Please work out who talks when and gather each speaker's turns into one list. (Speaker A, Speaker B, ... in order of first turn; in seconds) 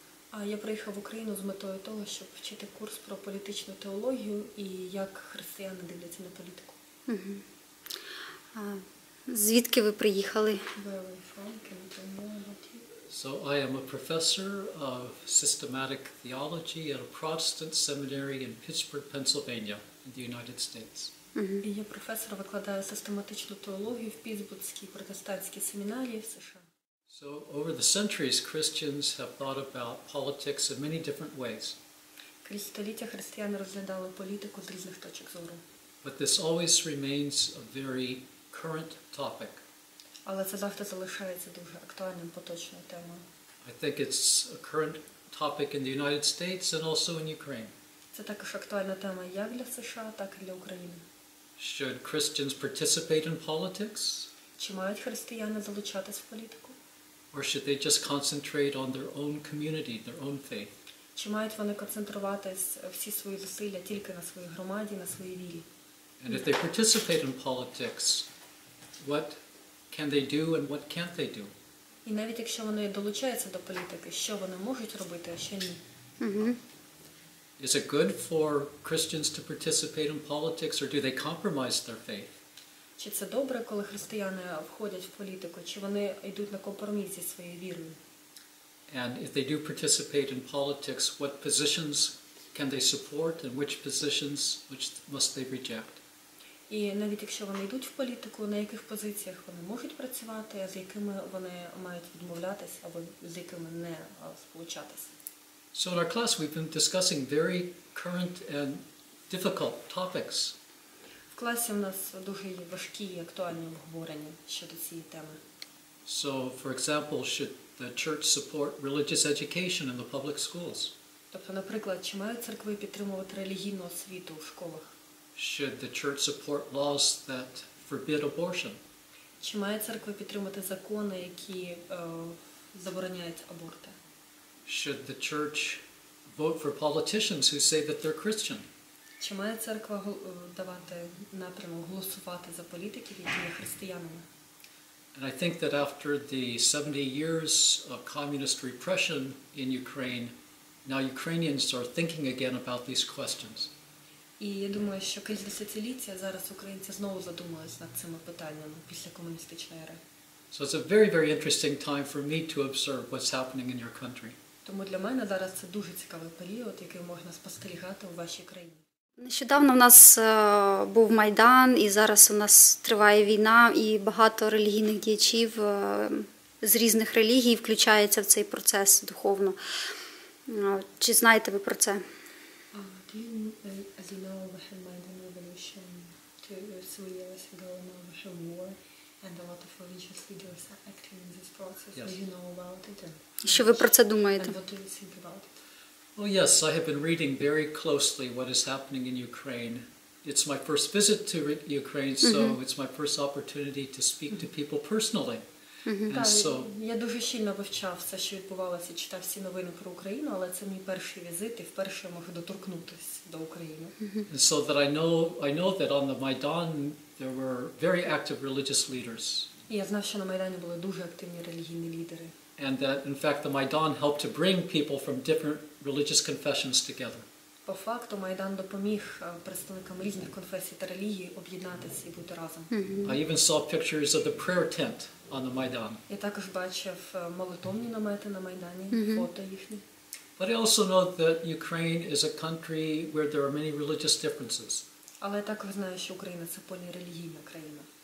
Speaker A: 0.3-6.8, 10.7-12.9, 21.6-26.7, 32.4-35.6, 40.2-43.2, 48.1-51.0, 54.6-56.8, 61.1-65.7, 72.0-75.8, 83.0-88.0, 96.7-105.1, 111.3-115.4, 121.3-124.9, 129.4-133.9, 139.2-144.2, 154.4-160.0, 164.6-168.8, 182.7-195.5, 206.1-213.9, 219.7-222.3, 227.7-232.7, 236.1-239.8, 245.2-247.9
Speaker B: 7.1-7.4, 8.5-10.6, 21.3-21.6, 76.2-76.6, 169.2-179.6, 180.5-182.0, 193.4-194.5, 202.2-202.6, 214.0-214.2, 232.7-233.2, 238.9-239.2
Speaker C: 13.1-21.1, 27.1-31.8, 36.0-39.6, 43.6-47.7, 51.6-54.3, 57.3-60.8, 66.2-68.3, 69.0-69.4, 69.9-71.5, 77.6-82.4, 88.9-96.0, 105.7-110.5, 116.0-120.9, 125.3-128.8, 134.7-138.6, 145.1-150.3, 150.8-153.7, 160.5-164.3, 196.2-205.4, 206.1-206.7, 214.3-219.5, 222.6-227.2, 233.0-236.0, 240.4-244.8